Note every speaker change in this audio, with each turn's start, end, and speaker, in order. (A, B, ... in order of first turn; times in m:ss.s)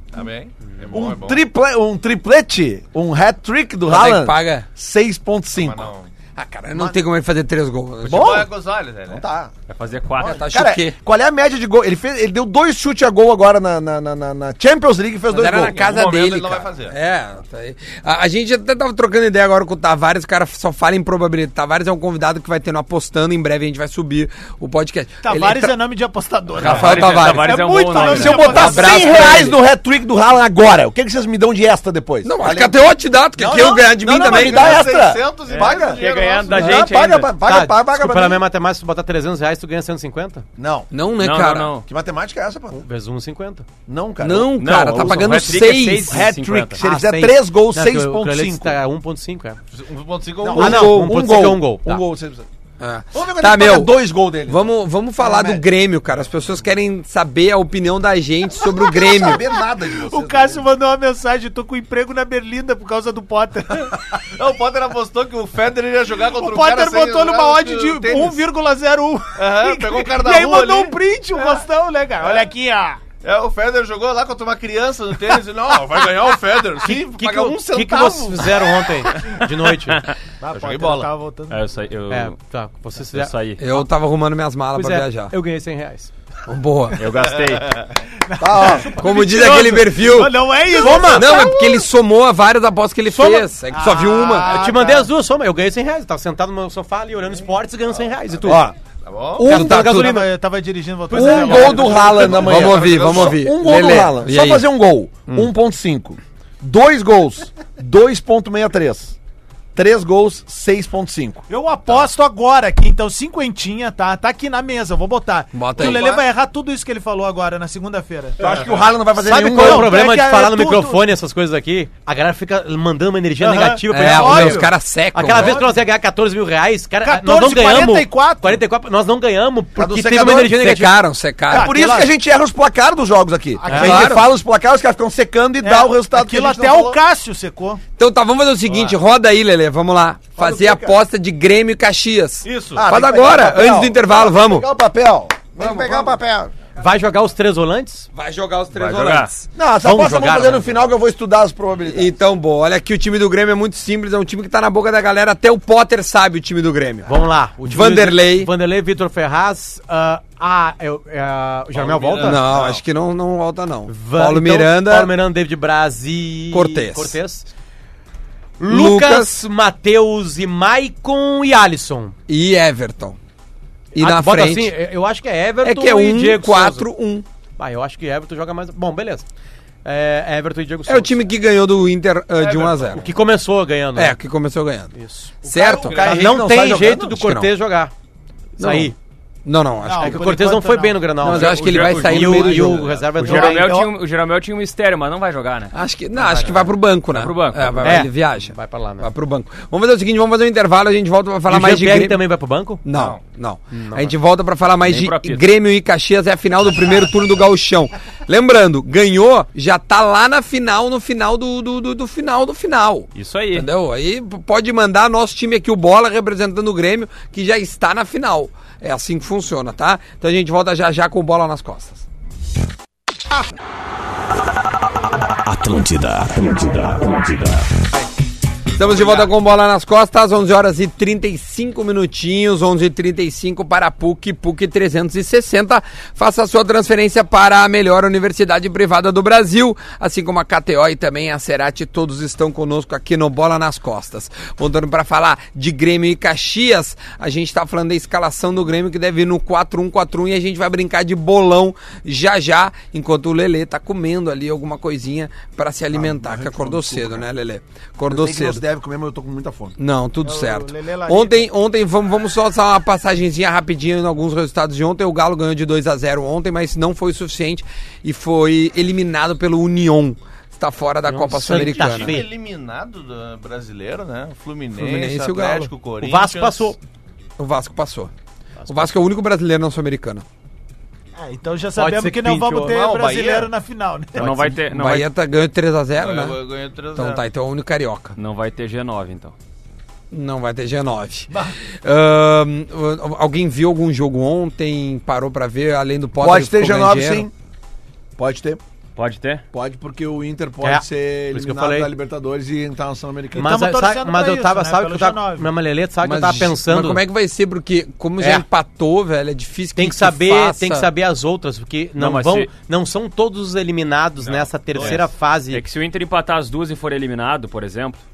0:00.1-0:01.4 A
0:00.9-0:05.9 B
0:03.9-0:04.7 C
0:05.5-0:06.1 A
0:06.4-0:08.5 C
0:08.0-0:09.2 A
0:08.1-0:09.5 B
0:09.7-0:10.5 D
0:10.2-0:11.0 C
0:10.3-0:16.1 B
0:15.3-0:25.7 C
0:15.5-0:16.9 A
0:25.2-0:29.4 E
0:26.6-0:27.6 C
0:26.6-0:28.9 D
0:28.0-0:32.8 B
0:28.2-0:29.6 C
0:32.2-0:34.9 C
0:33.4-0:38.4 B
0:34.1-0:36.8 A
0:35.5-0:37.3 D
0:37.4-0:40.4 F
0:40.6-0:40.9 B
0:40.9-0:41.7 C
0:41.2-0:41.8 D
0:41.8-0:42.8 B
0:42.7-0:43.6 F
0:43.9-0:48.8 B
0:44.2-0:46.2 C
0:44.5-0:46.8 D
0:46.8-0:49.6 F
0:49.7-0:50.9 A
0:50.4-0:52.4 B
0:50.5-0:52.0 F
0:50.6-0:51.1 C
0:52.8-0:59.4 C
0:53.1-0:54.7 B
0:55.2-0:55.6 B
0:58.8-1:00.6 B
0:59.1-1:04.0 E
1:04.4-1:08.4 A
1:06.2-1:13.0 E
1:09.4-1:11.6 A
1:13.2-1:18.8 A
1:16.8-1:20.0 F
1:20.4-1:21.6 E
1:20.5-1:21.1 A
1:21.5-1:22.3 D
1:22.1-1:23.3 F
1:23.1-1:23.6 D
1:23.6-1:25.3 C
1:24.7-1:26.1 F
1:26.5-1:27.0 C
1:27.0-1:27.8 D
1:28.3-1:31.8 E
1:28.4-1:28.9 B
1:28.8-1:29.8 F
1:29.0-1:34.6 C
1:30.8-1:31.4 F
1:33.1-1:33.5 F
1:33.7-1:35.1 E
1:34.4-1:38.6 F
1:38.4-1:38.7 B
1:39.0-1:39.5 A
1:39.4-1:40.0 B
1:39.4-1:40.2 C
1:39.4-1:40.3 F
1:39.6-1:42.2 E
1:41.1-1:42.2 F
1:41.1-1:49.1 B
1:41.9-1:44.6 C
1:42.1-1:43.4 A
1:49.7-1:51.4 B
1:51.5-1:58.5 E
1:55.5-1:56.1 C
1:58.4-2:00.0 B
1:59.2-2:11.0 F
1:59.3-2:01.0 E
2:03.4-2:04.7 E
2:03.9-2:05.6 C
2:05.3-2:05.7 E
2:07.0-2:08.6 E
2:09.8-2:10.6 B
2:10.5-2:11.7 C
2:11.5-2:12.1 E
2:11.5-2:17.0 B
2:13.6-2:14.1 E
2:13.6-2:14.0 F
2:13.8-2:14.3 C
2:15.6-2:17.8 E
2:18.0-2:24.7 C
2:18.7-2:19.0 A
2:20.4-2:21.0 B
2:22.4-2:22.9 A
2:22.7-2:26.5 B
2:25.6-2:26.2 C
2:26.8-2:28.1 F
2:28.1-2:29.5 C
2:28.7-2:29.3 D
2:29.5-2:32.1 B
2:29.8-2:30.8 F
2:31.9-2:38.5 C
2:37.0-2:42.4 F
2:41.7-2:42.8 A
2:42.2-2:45.1 C
2:43.9-2:47.5 F
2:46.5-2:47.2 C
2:48.6-2:52.1 F
2:48.7-2:49.4 C
2:52.3-2:53.2 C
2:53.9-2:54.8 C
2:54.0-2:56.9 F
2:55.6-2:57.2 C
2:57.6-2:59.2 F
2:59.8-3:01.2 F
3:00.8-3:03.0 C
3:02.3-3:03.1 A
3:02.9-3:04.2 F
3:03.9-3:04.9 C
3:04.9-3:05.4 F
3:05.4-3:07.1 B
3:05.4-3:06.3 C
3:05.7-3:06.2 A
3:05.9-3:07.9 F
3:07.0-3:07.5 C
3:08.6-3:08.9 C
3:08.6-3:08.9 F
3:09.4-3:10.5 C
3:09.8-3:11.3 E
3:10.0-3:13.8 F
3:11.2-3:12.9 C
3:11.4-3:15.7 D
3:12.7-3:13.1 A
3:13.3-3:13.9 E
3:15.7-3:22.2 C
3:16.2-3:16.6 F
3:17.1-3:18.0 D
3:17.8-3:19.1 F
3:21.5-3:22.8 F
3:22.8-3:42.0 C
3:22.9-3:23.2 A
3:23.7-3:24.1 F
3:24.8-3:25.4 D
3:33.1-3:33.7 D
3:48.7-4:18.6 C
4:15.9-4:17.2 B
4:18.1-4:19.8 B
4:19.8-4:32.2 C
4:20.2-4:21.5 E
4:31.0-4:32.3 F
4:31.5-4:36.7 A
4:34.8-4:35.7 C
4:36.0-4:36.8 F
4:37.4-4:38.1 C
4:38.6-4:39.0 F
4:38.7-4:40.2 C
4:41.2-4:44.5 E
4:41.8-4:42.8 F
4:42.6-4:43.5 A
4:44.2-4:45.1 D
4:44.7-4:46.4 C
4:46.0-4:47.2 A
4:46.9-4:48.2 C
4:48.2-4:49.3 D
4:50.1-4:57.3 C
4:56.2-4:57.3 B
4:58.2-4:58.6 B
4:59.0-4:59.4 D
4:59.5-5:03.5 B
5:00.6-5:01.9 F
5:03.3-5:07.0 F
5:03.4-5:05.5 E
5:06.0-5:10.9 C
5:08.2-5:08.4 F
5:09.8-5:15.6 F
5:12.0-5:12.5 D
5:14.2-5:15.1 A
5:15.5-5:18.0 D